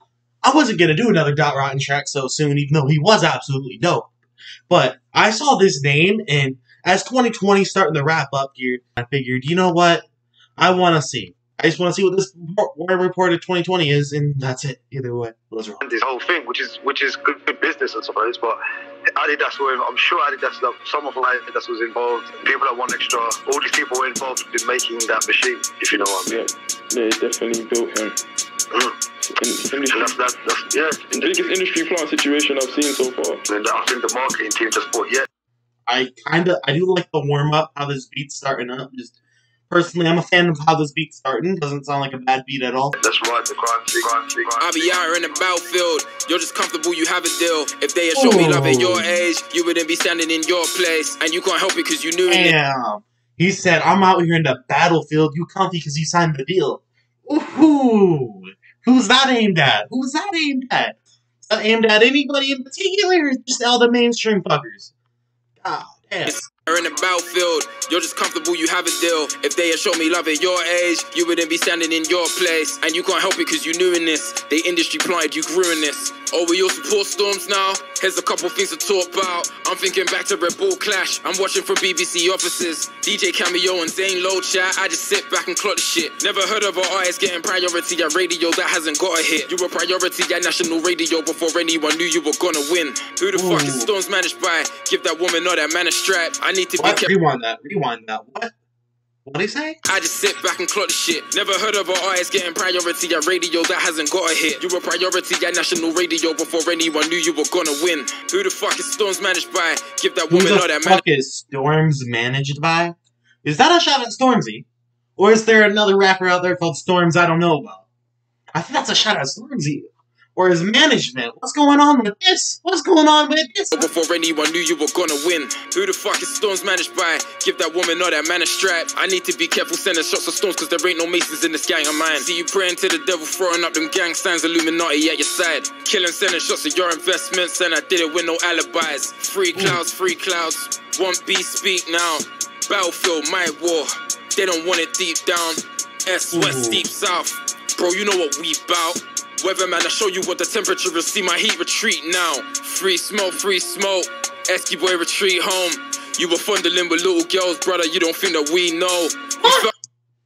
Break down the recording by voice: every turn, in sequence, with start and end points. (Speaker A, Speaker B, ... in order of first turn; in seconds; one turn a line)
Speaker A: 0.4-4.1
Speaker A: 4.7-10.0
Speaker A: 10.6-15.8
Speaker B: 15.8-18.6
Speaker B: 19.1-26.4
Speaker C: 26.3-28.2
Speaker C: 29.3-30.2
Speaker B: 29.9-31.4
Speaker C: 31.2-33.4
Speaker B: 33.5-35.3
Speaker A: 35.9-39.1
Speaker A: 39.7-43.0
Speaker B: 43.0-44.8
Speaker D: 44.6-52.5
Speaker A: 48.1-49.2
Speaker A: 52.3-61.0
Speaker A: 61.5-64.9
Speaker A: 65.6-66.4
Speaker D: 66.2-97.1
Speaker A: 93.3-93.9
Speaker A: 96.8-98.5
Speaker A: 99.2-99.8
Speaker D: 99.9-111.0
Speaker A: 110.3-114.7
Speaker A: 115.2-117.9
Speaker A: 118.5-119.8
Speaker A: 120.4-123.9
Speaker D: 123.7-159.7
Speaker A: 139.5-139.8
Speaker A: 146.3-146.8
Speaker A: 159.4-159.7